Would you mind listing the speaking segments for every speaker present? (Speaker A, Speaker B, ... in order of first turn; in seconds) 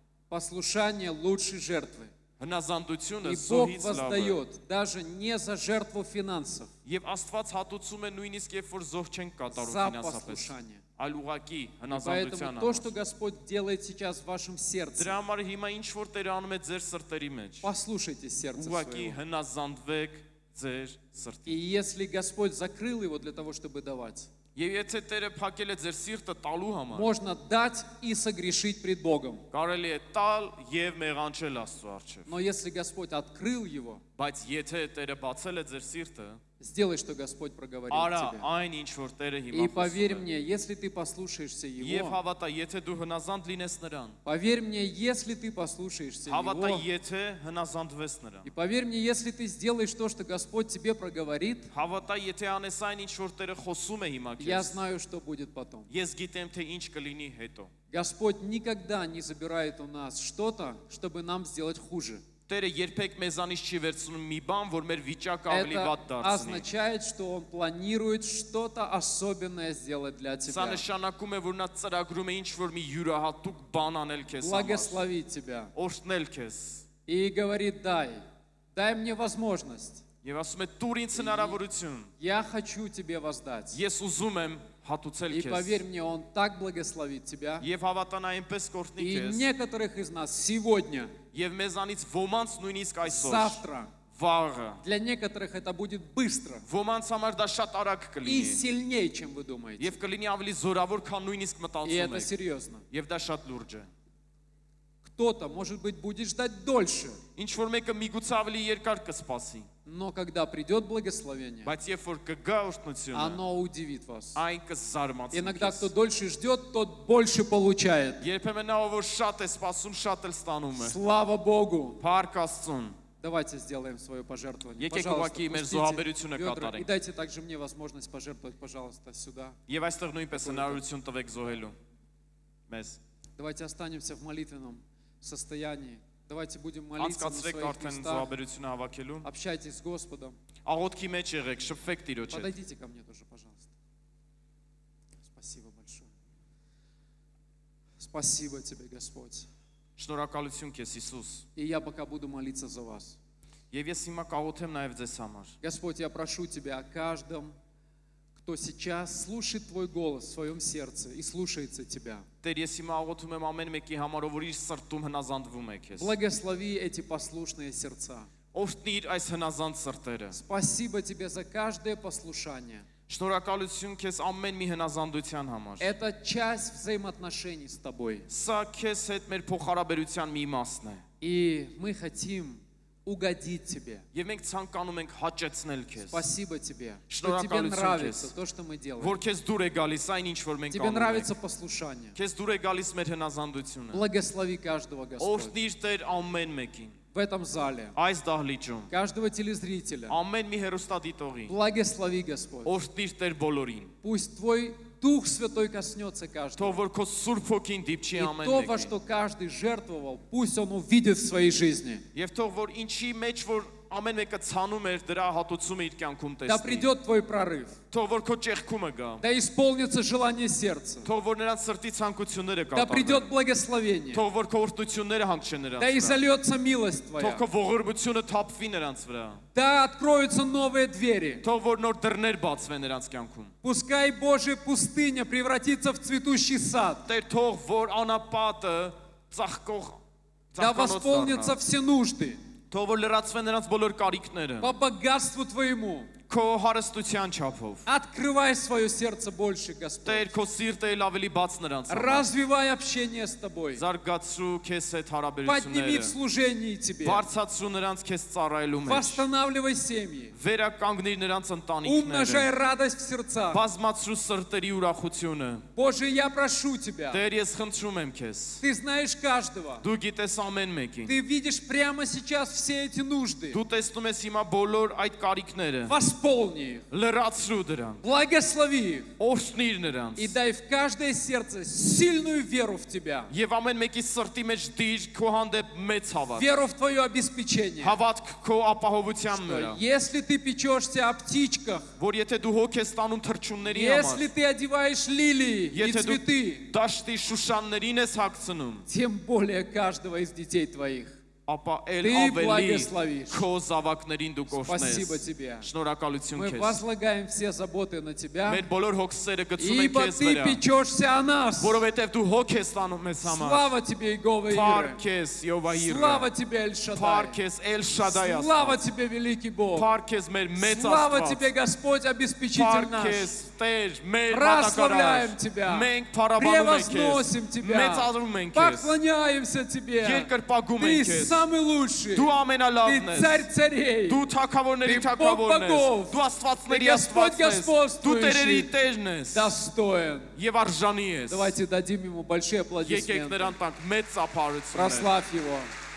Speaker A: 0.3-2.1, 3.2-6.7, 9.5-10.8, 11.9-15.2, 17.6-19.2, 21.5-24.3, 26.9-29.5, 32.3-34.0, 36.6-38.5, 39.5-42.2, 44.2-46.9, 48.5-51.7, 54.4-55.9, 57.9-62.2, 65.5-70.8, 74.4-75.7, 77.1-80.0, 81.1-81.6, 82.2-83.8, 85.3-87.7, 89.0-91.2, 93.0-94.0, 94.8-96.7, 98.2-100.0, 101.8-102.8, 105.0-107.2, 109.8-111.7, 113.1-114.4, 115.3-118.2, 120.8-122.0, 123.2-129.6, 130.3-130.8, 133.4-138.3, 139.2-140.4, 142.3-143.7, 145.2-146.1, 148.0-149.5, 151.6-153.2, 155.6-157.6, 158.4-162.3, 165.9-168.3, 170.3-172.9, 175.8-178.3, 181.2-184.1, 186.0-189.2, 190.7-192.2, 193.9-195.6, 197.1-198.0, 198.9-200.2, 201.5-202.8, 204.0-206.8, 208.2-212.1, 216.5-217.8, 219.2-221.1, 222.7-224.3, 225.8-227.4, 229.5-231.4, 233.6-237.1, 240.6-242.4, 244.6-246.1, 247.9-250.3, 251.9-253.8, 255.4-257.2, 258.8-260.4, 261.8-263.6, 265.7-267.2, 268.6-269.9, 271.1-273.6, 275.9-276.9, 278.0-279.1, 280.2-283.3, 286.4-288.0, 289.3-291.9, 293.6-296.7, 298.9-301.3, 302.0-303.5, 304.6-305.7, 306.3-308.7, 309.6-311.8, 313.2-315.0, 315.7-317.4, 317.9-319.9, 320.6-323.3, 324.3-334.3, 334.8-338.7, 339.3-340.4, 341.3-343.6, 344.7-345.7
Speaker B: 2.4-4.4, 6.8-12.9, 15.0-17.7, 18.6-21.6, 24.6-27.1, 29.5-32.3, 34.2-36.4, 37.9-40.3, 41.8-44.2, 46.3-48.5, 51.7-54.8, 55.9-57.7, 62.5-66.7, 70.5-75.0, 75.7-76.9, 80.2-82.1, 83.7-85.8, 87.6-89.5, 91.3-94.8, 96.7-98.6, 99.8-102.3, 102.9-103.9, 107.4-109.7, 111.6-113.4, 114.3-115.9, 118.2-121.0, 122.0-123.0, 124.8-126.9, 129.7-131.8, 132.7-133.0, 137.0-139.3, 140.7-142.5, 150.0-151.5, 153.7-155.6, 162.4-166.1, 168.5-170.4, 173.1-175.9, 178.3-181.0, 184.1-186.2, 187.1-188.3, 189.0-191.3, 192.2-194.0, 195.2-197.0, 197.9-198.9, 200.1-201.6, 202.7-203.9, 206.6-208.9, 212.1-216.9, 217.9-219.2, 221.0-223.3, 224.1-226.2, 227.2-229.4, 231.4-233.6, 237.1-240.0, 240.5-241.6, 242.7-244.7, 246.3-247.8, 250.0-252.3, 253.8-256.1, 257.0-259.2, 260.3-262.5, 263.5-265.7, 267.1-268.6, 269.8-271.2, 273.5-275.9, 276.9-278.0, 279.2-280.4, 283.3-286.5, 287.8-289.8, 292.0-294.3, 295.7-298.9, 301.4-306.9, 308.5-310.6, 311.6-313.7, 314.5-316.3, 316.9-318.8, 319.8-321.5, 322.5-328.9, 330.0-331.5, 332.1-333.5, 334.1-339.6, 340.4-341.5, 342.8-345.1